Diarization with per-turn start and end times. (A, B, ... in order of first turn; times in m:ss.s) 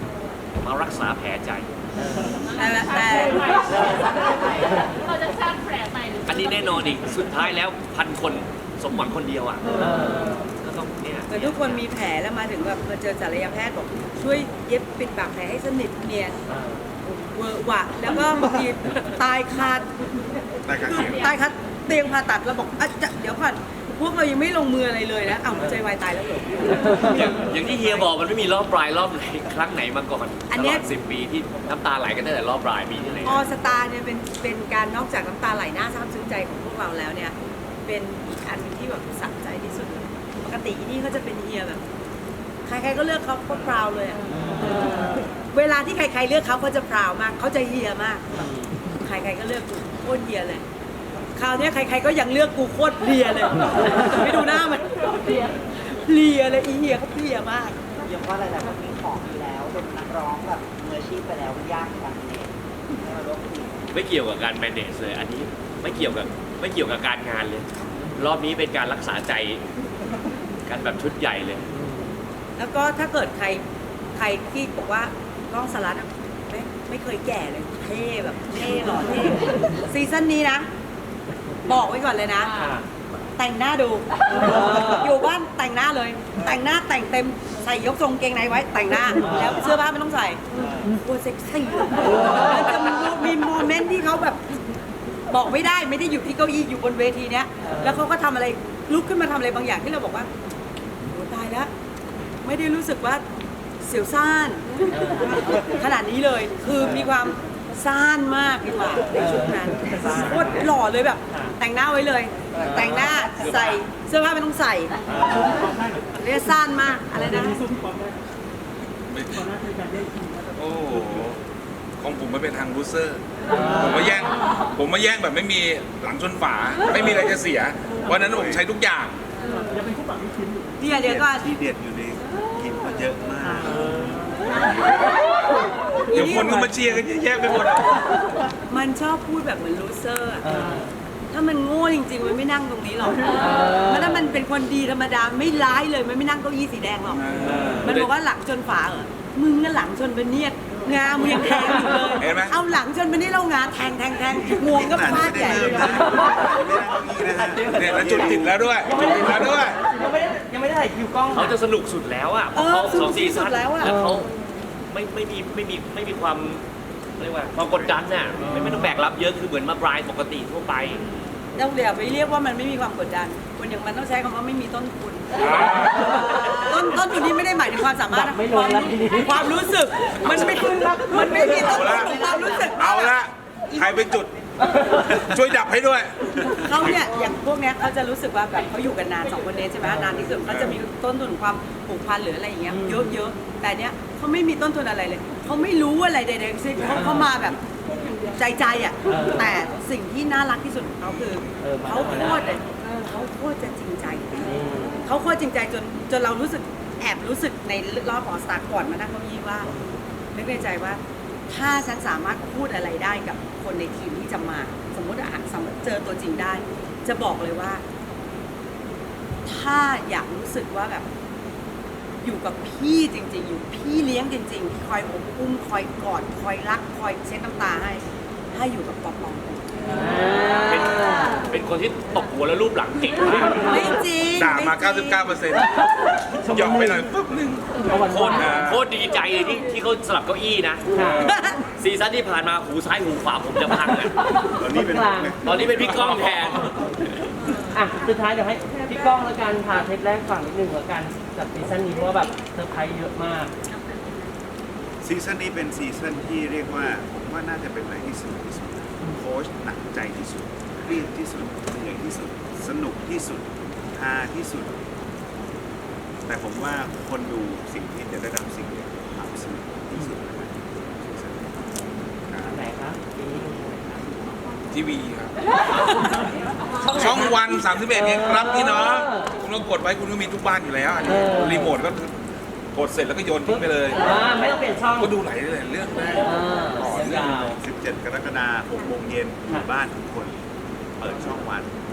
0:00.5-0:01.7 A
0:02.0-0:02.3 B
0:02.3-0:07.2 C
0:02.5-0:03.9 D
0:06.2-0:11.8 A
0:09.7-0:10.4 B
0:11.3-0:16.4 D
0:16.5-0:16.8 B
0:17.0-0:19.9 D
0:20.7-0:21.3 E
0:20.7-0:27.9 D
0:26.8-0:33.5 A
0:30.5-0:30.8 D
0:33.2-0:37.3 D
0:37.8-0:41.8 D
0:42.6-0:44.2 D
0:44.3-0:45.0 B
0:45.5-0:48.2 D
0:48.3-0:48.8 B
0:49.0-0:50.6 D
0:51.3-0:57.8 D
0:58.0-1:02.5 F
1:03.0-1:03.7 F
1:03.9-1:09.6 A
1:10.6-1:11.6 A
1:11.7-1:12.1 B
1:12.6-1:13.6 D
1:14.1-1:20.7 D
1:21.6-1:22.5 D
1:22.5-1:22.8 B
1:23.4-1:34.4 D
1:24.5-1:24.8 B
1:29.3-1:29.5 B
1:35.3-1:40.3 D
1:37.6-1:37.9 B
1:41.1-1:41.7 D
1:42.4-1:43.2 D
1:43.8-1:55.4 D
1:44.9-1:45.4 B
1:49.2-1:50.7 B
1:51.3-1:51.5 B
1:52.6-1:53.1 B
1:55.1-1:55.6 B
1:56.1-1:57.6 D
1:59.1-1:59.5 E
2:00.5-2:01.4 E
2:02.0-2:09.2 E
2:08.2-2:08.6 G
2:10.8-2:11.5 D
2:10.8-2:15.2 G
2:16.1-2:16.8 D
2:16.1-2:18.1 E
2:18.7-2:20.5 D
2:20.4-2:20.9 B
2:21.3-2:36.1 D
2:23.4-2:23.7 B
2:27.1-2:27.8 E
2:27.5-2:28.1 A
2:32.2-2:32.5 E
2:34.3-2:38.7 G
2:37.7-2:39.8 E
2:38.8-2:41.6 B
2:41.3-2:44.3 A
2:42.5-2:44.0 D
2:43.8-2:44.2 B
2:44.9-2:46.6 A
2:47.2-2:51.0 A
2:47.6-2:48.3 G
2:51.6-3:03.1 D
2:55.3-2:56.3 E
2:58.1-2:59.5 B
3:01.6-3:07.0 E
3:03.7-3:04.1 D
3:06.6-3:17.6 D
3:09.8-3:10.2 B
3:10.4-3:10.8 E
3:12.7-3:13.0 B
3:16.9-3:17.3 B
3:18.3-3:29.7 D
3:19.1-3:19.5 B
3:21.6-3:22.4 B
3:24.4-3:25.0 B
3:29.7-3:30.0 B
3:30.3-3:37.8 D
3:39.4-3:41.0 D
3:42.2-3:49.6 D
3:49.9-3:51.3 B
3:50.5-3:54.0 A
3:53.6-3:55.3 D
3:54.3-3:55.8 E
3:56.3-3:57.0 B
3:56.4-3:57.7 E
3:57.8-3:58.6 B
3:57.9-4:04.1 A
3:58.4-3:58.8 E
4:00.9-4:01.3 B
4:00.9-4:01.4 E
4:04.5-4:06.6 G
4:04.7-4:05.4 B
4:05.4-4:06.8 A
4:07.6-4:13.5 B
4:15.0-4:24.8 G
4:26.3-4:31.6 G
4:32.3-4:32.6 G
4:32.4-4:34.0 B
4:34.7-4:35.3 E
4:36.8-4:37.3 B
4:36.9-4:42.1 E
4:37.9-4:39.3 B
4:41.1-4:41.7 B
4:42.7-4:44.1 E
4:43.4-4:45.1 B
4:45.0-4:47.4 E
4:46.2-4:47.6 B
4:47.5-4:50.4 G
4:51.0-4:51.7 G